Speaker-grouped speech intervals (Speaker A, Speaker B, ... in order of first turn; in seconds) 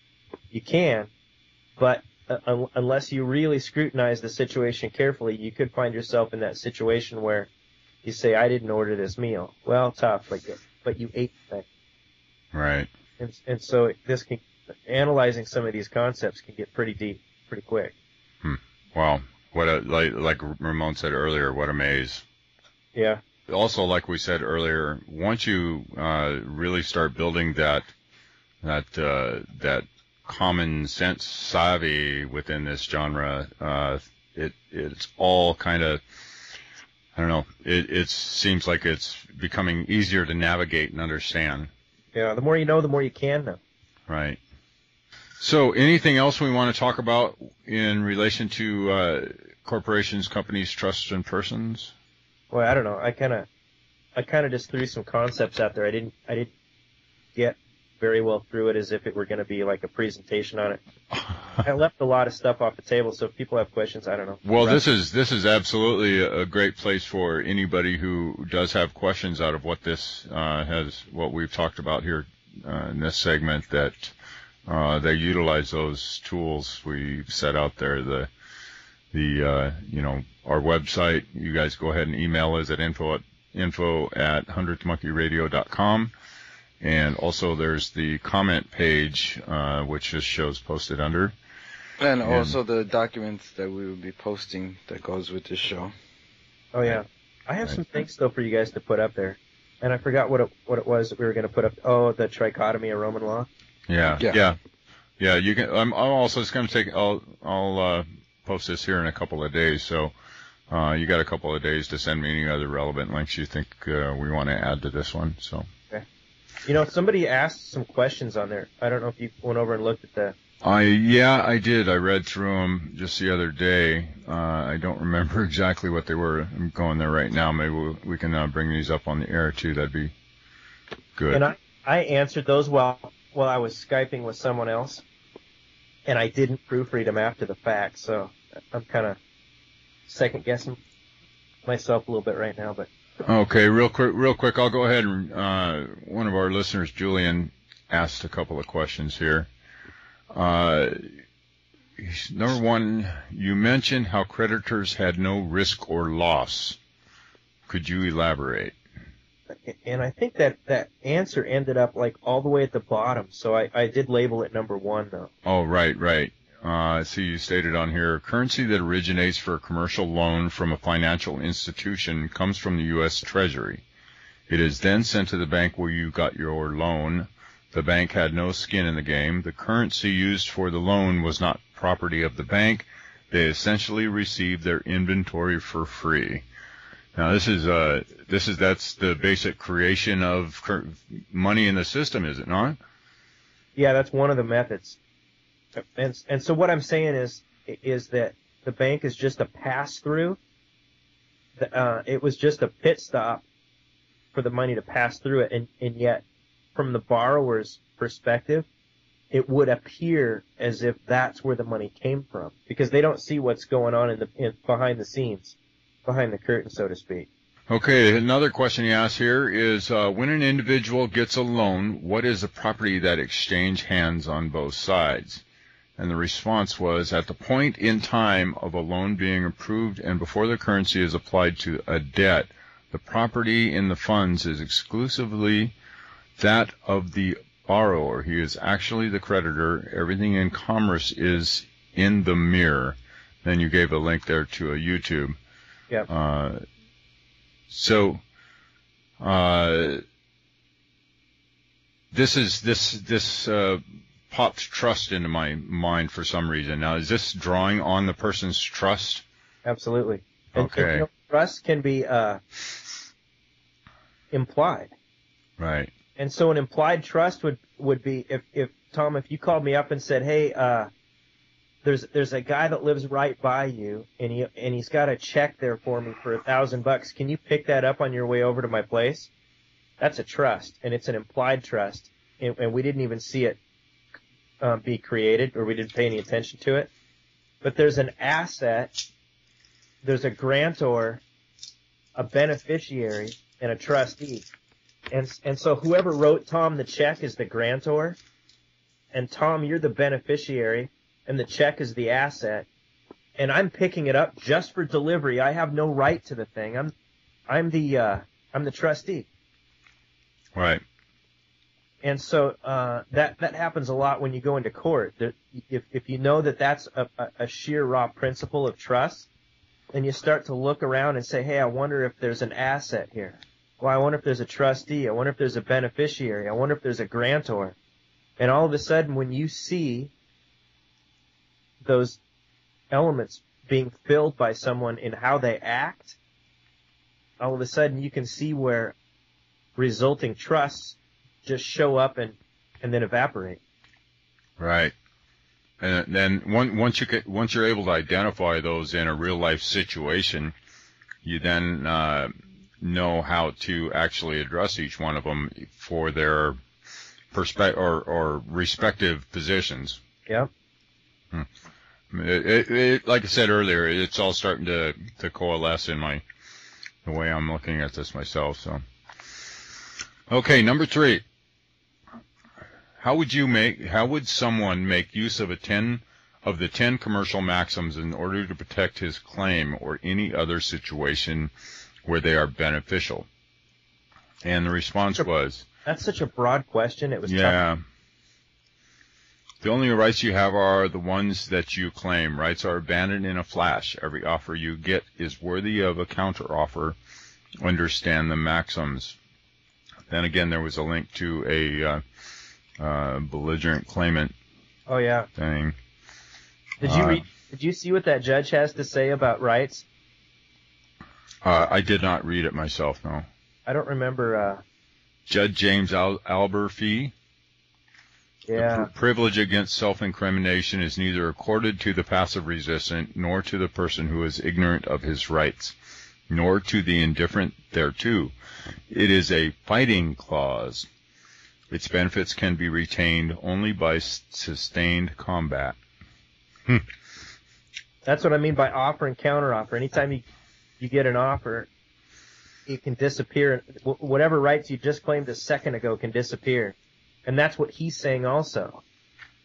Speaker A: 0.5-1.1, 1.8-7.5, 8.0-11.7, 13.2-17.9, 22.9-23.2, 42.1-43.6, 52.5-53.5, 54.1-56.5, 57.3-60.8, 61.6-64.8, 96.7-103.5, 116.6-120.3, 131.3-135.0, 136.1-139.2, 140.1-140.8, 141.7-142.9, 159.6-165.3, 193.8-195.0, 195.8-200.4, 201.6-203.4, 204.3-206.2, 206.7-208.7, 209.3-217.3, 259.6-262.9, 264.3-264.9, 266.2-270.9, 271.8-279.3, 280.0-283.6, 284.6-286.9, 287.6-289.0, 290.0-291.2, 292.1-294.5, 295.1-298.2, 299.1-302.7, 303.4-306.9, 307.5-309.3, 312.0-319.3, 319.9-327.8, 328.4-330.1, 331.8-332.2, 332.9-336.2, 337.4-338.9, 339.8-343.6, 385.9-387.6, 404.9-405.3, 406.8-409.9, 413.7-414.6, 418.5-418.9, 438.0-440.2, 440.8-441.7, 442.7-448.8
Speaker B: 12.5-12.9, 18.4-22.2, 23.5-27.9, 28.6-36.0, 37.1-41.7, 44.1-44.4, 45.4-51.9, 64.4-74.1, 74.7-78.3, 79.1-86.1, 86.8-91.3, 92.2-92.5, 103.9-104.6, 105.2-110.1, 110.7-115.7, 120.6-130.1, 131.2-131.4, 143.2-149.5, 150.3-151.1, 152.0-156.8, 157.7-158.7, 165.4-173.8, 174.5-186.4, 187.1-192.8, 217.7-225.4, 226.0-235.7, 236.4-245.3, 246.1-246.6, 247.7-248.2, 249.2-250.0, 252.1-259.2, 260.6-261.1, 265.6-265.9, 310.5-310.8, 344.6-344.9, 345.8-350.5, 351.2-356.6, 357.3-360.0, 362.1-366.2, 367.0-368.8, 370.3-371.2, 373.0-381.5, 382.0-383.2, 384.4-385.6, 387.3-387.8, 389.6-396.9, 397.6-399.1, 400.1-402.0, 402.8-404.3, 405.4-405.8, 406.8-407.2, 411.4-413.3, 415.3-417.1, 418.6-425.7, 426.3-428.3, 428.9-430.9, 431.7-435.8
Speaker C: 92.0-95.9